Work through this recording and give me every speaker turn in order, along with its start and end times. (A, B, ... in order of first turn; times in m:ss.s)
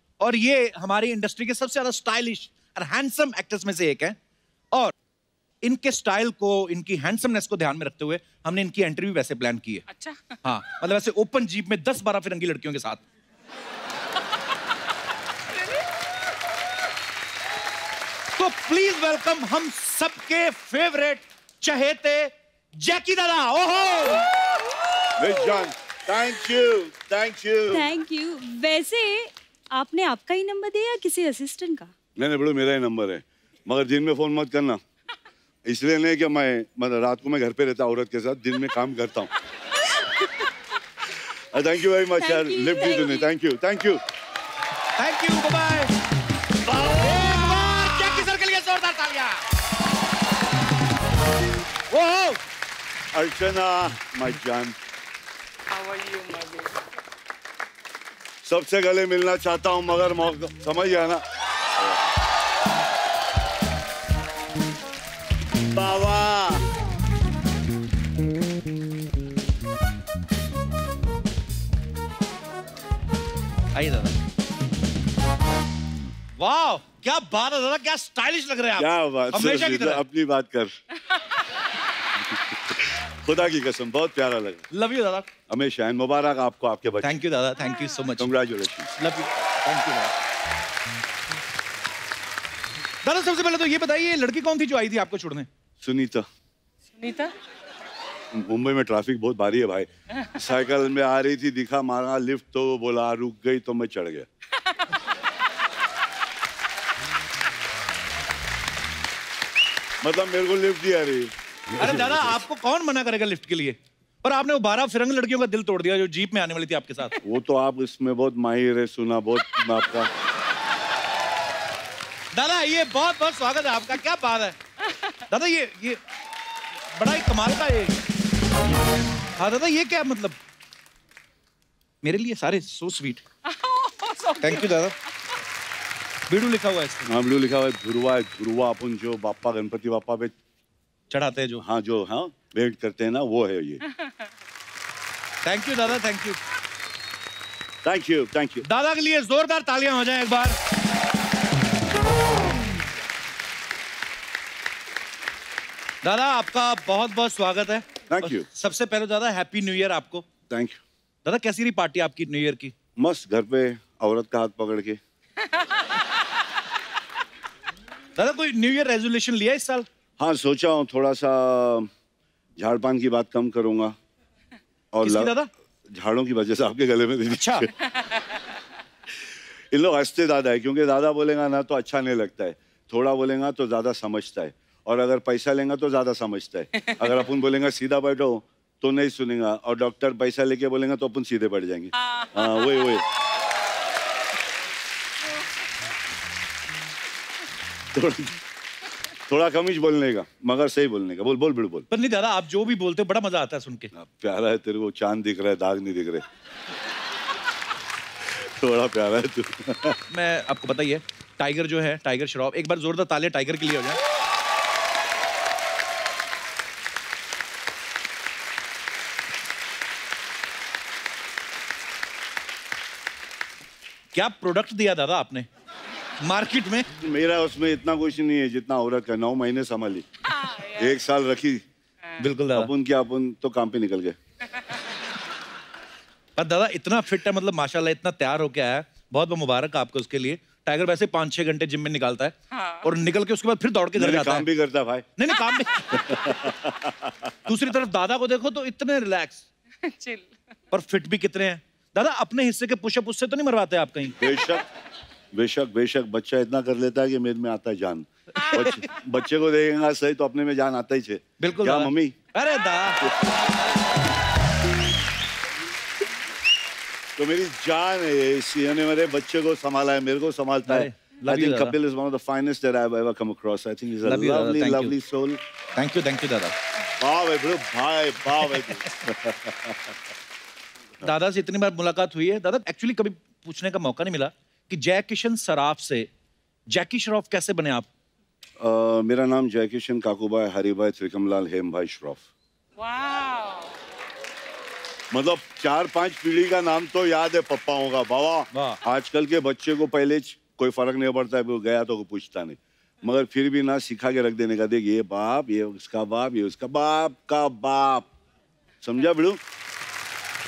0:00.2-0:04.2 A
0:05.6-0:09.8 A
0:09.9-0:10.4 B
0:10.4-0:13.0 A
0:18.4-0:24.3 A
0:25.2-0:27.9 C
0:27.7-0:31.9 D
0:32.2-0:34.8 C
0:35.6-0:39.3 C
0:41.4-0:44.0 C
0:42.2-0:43.2 D
0:45.0-0:45.9 A
0:46.6-0:48.3 C
0:47.0-0:49.4 A
0:51.9-0:52.4 C
0:53.1-0:54.8 C
0:55.7-0:56.8 B
0:58.4-1:01.2 C
1:05.7-1:06.6 C
1:13.7-1:14.2 A
1:16.4-1:20.0 A
1:18.8-1:20.8 C
1:22.2-1:24.7 C
1:24.7-1:25.3 A
1:25.5-1:27.1 C
1:27.0-1:28.3 A
1:28.2-1:28.9 C
1:29.0-1:30.1 A
1:33.0-1:35.5 A
1:35.8-1:36.3 C
1:37.0-1:37.3 B
1:38.3-1:44.3 C
1:50.0-1:52.4 C
1:51.8-1:57.2 A
1:57.2-2:00.1 C
2:02.3-2:04.6 A
2:05.3-2:06.0 A
2:06.9-2:07.9 A
2:09.4-2:10.4 A
2:12.0-2:13.2 A
2:13.5-2:14.8 B
2:14.4-2:14.9 A
2:16.3-2:17.1 A
2:17.0-2:20.3 C
2:21.1-2:21.6 A
2:21.6-2:23.8 C
2:25.4-2:26.4 A
2:27.8-2:28.6 C
2:28.6-2:30.5 A
2:36.0-2:40.2 A
2:38.1-2:38.4 C
2:40.5-2:40.8 C
2:41.2-2:42.7 A
2:43.0-2:45.0 C
2:48.2-2:49.9 A
2:50.2-2:51.9 C
2:52.6-2:54.0 C
2:54.9-2:55.3 C
2:55.0-2:55.5 A
2:55.9-2:57.7 C
2:57.3-2:57.7 A
2:59.7-3:13.0 C
3:12.0-3:12.9 B
3:17.9-3:18.4 C
3:19.3-3:21.9 C
3:21.9-3:23.9 A
3:23.9-3:26.2 C
3:28.2-3:30.0 C
3:30.1-3:34.0 A
3:44.1-3:45.4 A
3:46.2-3:46.9 A
3:47.0-3:50.1 C
3:50.3-3:50.9 B
3:50.7-3:51.6 C
3:52.2-3:52.7 A
3:52.5-3:54.2 C
3:56.4-4:04.5 A
4:02.5-4:02.8 B
4:03.9-4:05.1 C
4:05.2-4:06.2 A
4:05.9-4:07.3 C
4:07.4-4:09.4 A
4:09.8-4:10.3 B
4:10.7-4:14.2 A
4:14.2-4:14.6 C
4:15.3-4:22.2 C
4:18.4-4:18.8 A
4:21.4-4:23.1 A
4:27.2-4:35.4 C
4:30.6-4:31.7 A
4:34.0-4:34.9 A
4:35.8-4:36.5 A
4:37.0-4:40.0 C
4:41.0-4:46.1 A
4:46.7-4:47.9 A
4:48.6-4:52.3 C
4:52.8-4:53.7 B
4:55.1-5:08.1 C
4:58.5-4:58.8 A
5:08.8-5:09.4 C